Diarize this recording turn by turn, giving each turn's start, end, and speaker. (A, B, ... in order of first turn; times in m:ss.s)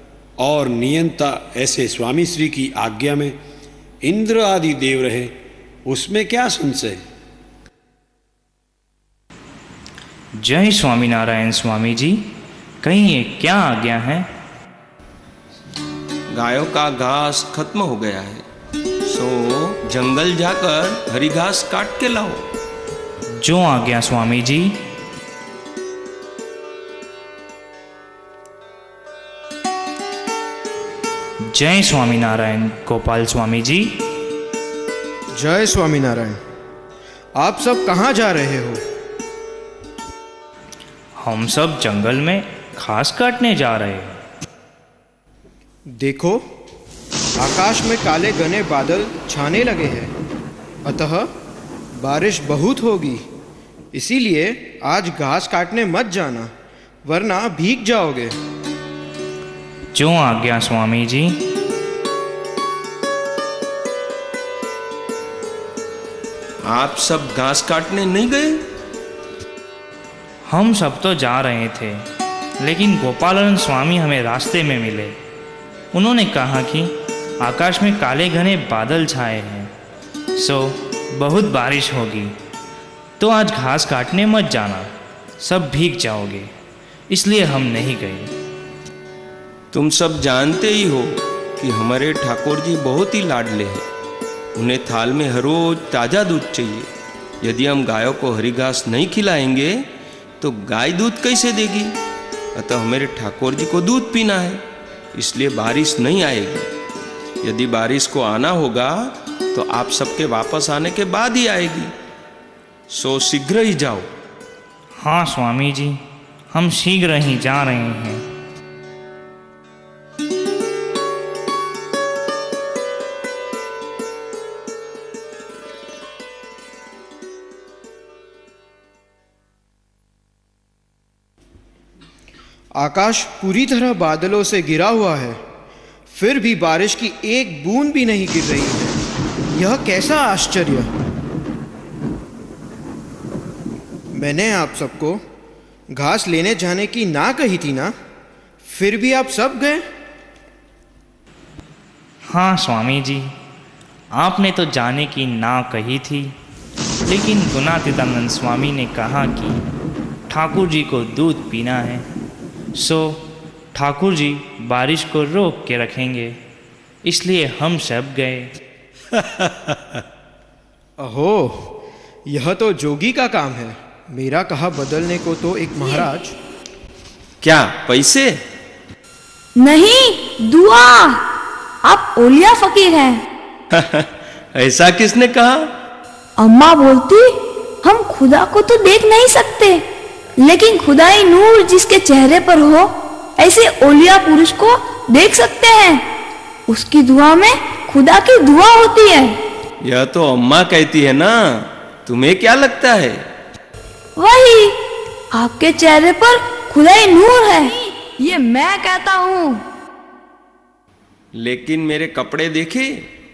0:00.4-0:03.4 A
0:04.0-0:07.0 A
0:10.4-0:12.3 B
0:12.8-0:14.3 B
0:16.3-0:18.4 C
0:19.0-0:22.4 C
0:23.4-0:24.8 B
0:31.4-0:34.0 B
0:35.4-0:36.4 D
0:37.4-0:38.8 D
0:41.2-0:44.2 B
0:45.9-0:46.4 D
0:47.4-0:50.1 D
0:50.9-0:51.3 D
0:52.0-0:53.2 D
0:53.9-0:56.5 D
0:57.0-0:58.4 D
0:59.9-1:01.4 B
1:06.6-1:08.6 C
1:10.5-1:12.1 B
1:12.6-1:15.2 B
1:15.9-1:19.7 B
1:20.4-1:22.4 B
1:23.2-1:26.5 B
1:27.1-1:28.3 B
1:29.7-1:33.8 C
1:34.6-1:36.9 C
1:37.4-1:39.8 C
1:40.4-1:42.0 C
1:42.6-1:44.6 C
1:45.2-1:46.7 C
1:47.4-1:51.9 C
1:52.9-1:54.1 C
1:55.0-1:58.2 B
2:12.8-2:15.4 D
2:16.1-2:19.0 D
2:19.5-2:20.9 D
2:24.1-2:25.2 D
2:25.9-2:27.9 D
2:28.6-2:29.9 D
2:32.3-2:33.3 B
2:34.1-2:36.4 B
2:37.1-2:39.6 B
2:40.3-2:42.1 B
2:42.8-2:43.2 B
2:43.7-2:46.4 B
2:47.0-2:48.5 B
2:51.0-2:51.7 D
2:52.3-2:56.4 D
2:57.4-2:58.4 C
2:59.6-3:01.2 E
3:01.8-3:03.2 E
3:03.7-3:05.7 C
3:06.4-3:09.8 E
3:10.4-3:16.0 E
3:16.7-3:19.4 E
3:19.8-3:23.3 C
3:24.2-3:24.8 E
3:25.3-3:29.6 E
3:31.4-3:33.1 C